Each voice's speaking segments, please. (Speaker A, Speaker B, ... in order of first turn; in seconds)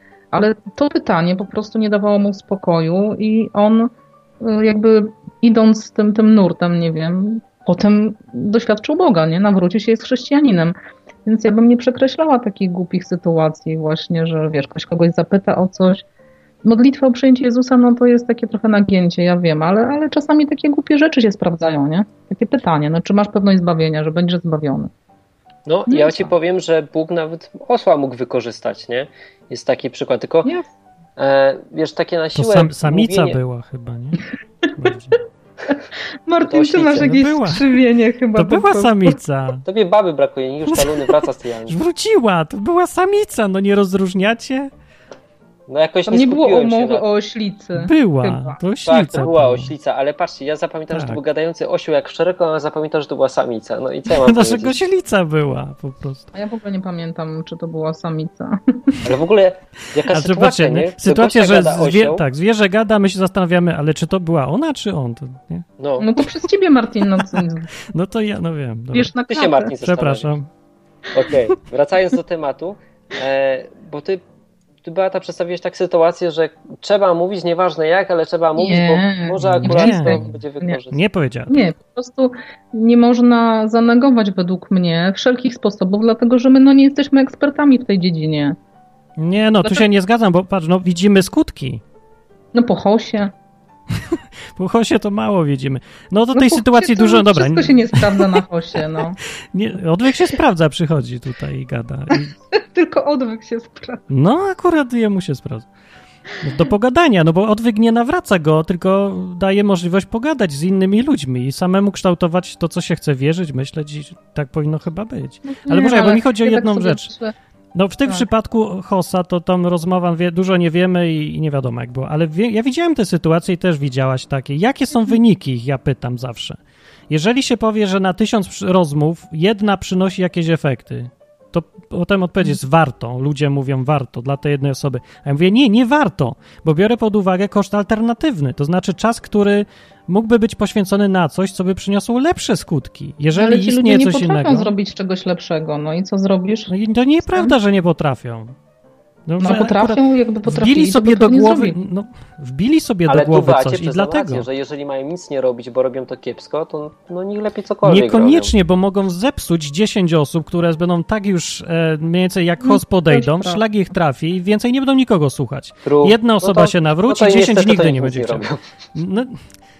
Speaker A: 0.3-10.7, 11.2-16.0, 16.6-24.9, 25.9-26.3, 36.3-39.2, 46.1-48.6, 56.3-59.0, 66.0-67.7, 68.9-69.7, 78.5-80.8, 81.5-88.6, 92.5-93.3, 96.3-99.2, 102.1-104.0, 115.4-117.3, 143.3-146.7, 147.3-147.5, 149.4-151.8, 162.6-163.6
Speaker B: 25.6-30.5, 31.2-33.4, 36.4-37.1, 39.6-41.8, 45.7-47.0, 48.8-54.8, 59.0-62.2, 65.8-66.1, 69.3-70.3, 71.1-74.2, 74.8-81.0, 153.1-158.5, 165.8-168.6
Speaker C: 32.3-34.2, 34.7-35.2, 36.9-37.8, 38.3-39.6, 40.7-41.0, 41.7-44.7, 47.8-49.7, 50.9-51.2, 54.1-56.3, 60.0-65.7, 67.4-69.1, 69.8-70.5, 79.4-80.2, 80.9-81.6, 89.2-91.8, 93.9-98.4, 99.5-102.3, 104.1-105.7, 106.4-117.1, 117.7-144.7, 146.7-148.6, 149.2-154.4, 157.8-169.4